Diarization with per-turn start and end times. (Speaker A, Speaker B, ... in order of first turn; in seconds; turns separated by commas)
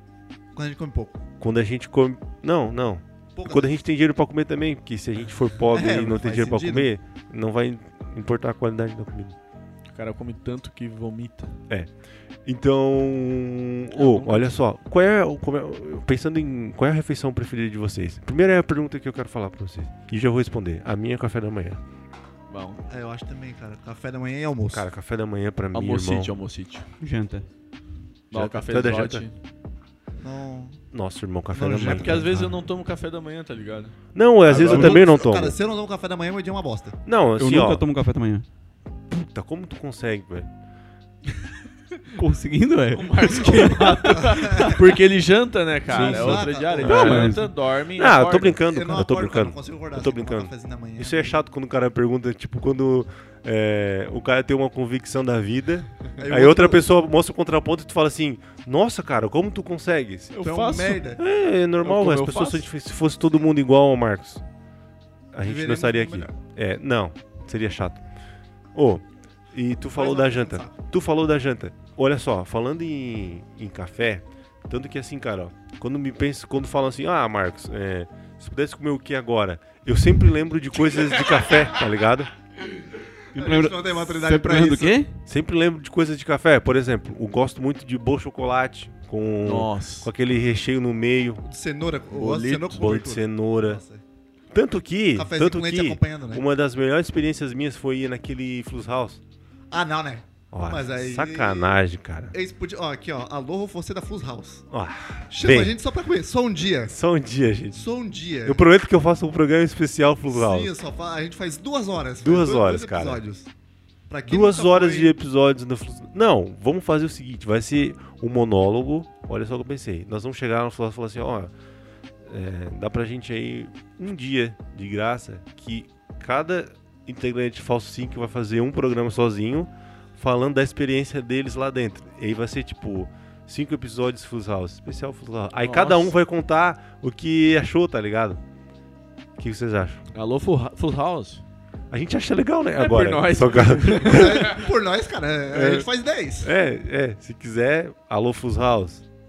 Speaker A: 0.5-1.2, Speaker B: 1.4-9.3, Speaker A: 3.4-3.8, Speaker A: 5.7-6.9, Speaker C: 9.9-11.6, Speaker B: 12.4-21.8, Speaker C: 13.9-14.6, Speaker C: 22.5-22.9, Speaker A: 22.9-24.9, Speaker B: 24.7-26.3, Speaker C: 25.7-26.9, Speaker D: 27.0-27.5, Speaker B: 28.3-29.3, Speaker C: 28.3-29.3, Speaker A: 30.2-30.8, Speaker B: 30.9-32.3, Speaker A: 31.5-32.6, Speaker C: 31.8-34.9, Speaker B: 34.1-35.6, Speaker A: 34.5-37.0, Speaker D: 34.6-35.0, Speaker B: 37.1-37.8, Speaker D: 37.4-38.5, Speaker B: 39.1-40.5, Speaker D: 42.1-44.8, Speaker C: 42.9-48.6, Speaker A: 43.2-44.9, Speaker A: 45.9-47.3, Speaker D: 45.9-47.5, Speaker B: 46.0-47.3, Speaker B: 47.9-60.4, Speaker A: 48.7-51.4, Speaker A: 56.2-56.8, Speaker C: 60.3-61.1, Speaker A: 60.4-61.2, Speaker B: 61.2-64.4, Speaker C: 61.8-62.7, Speaker B: 65.3-68.0, Speaker A: 65.4-66.3, Speaker B: 68.7-82.3, Speaker A: 69.9-70.8, Speaker A: 80.9-81.6, Speaker A: 82.6-85.0, Speaker D: 83.3-85.2, Speaker B: 85.3-91.4, Speaker C: 89.5-90.1, Speaker A: 91.5-94.0, Speaker C: 92.1-92.9, Speaker B: 92.7-93.8, Speaker B: 94.5-99.2, Speaker A: 95.1-96.5, Speaker A: 99.7-101.8, Speaker B: 100.5-102.3, Speaker A: 102.3-104.7, Speaker B: 104.7-105.8, Speaker A: 105.3-107.0, Speaker B: 106.9-107.9, Speaker A: 107.7-108.7, Speaker B: 108.4-110.7, Speaker A: 110.3-113.5, Speaker B: 112.2-113.2, Speaker A: 114.1-115.1, Speaker B: 114.2-121.5, Speaker B: 122.2-138.4, Speaker C: 135.6-136.2, Speaker B: 139.4-140.0, Speaker C: 140.1-141.4, Speaker B: 141.9-144.6, Speaker C: 142.8-144.6, Speaker A: 144.0-146.5, Speaker B: 145.5-145.9, Speaker B: 146.4-149.1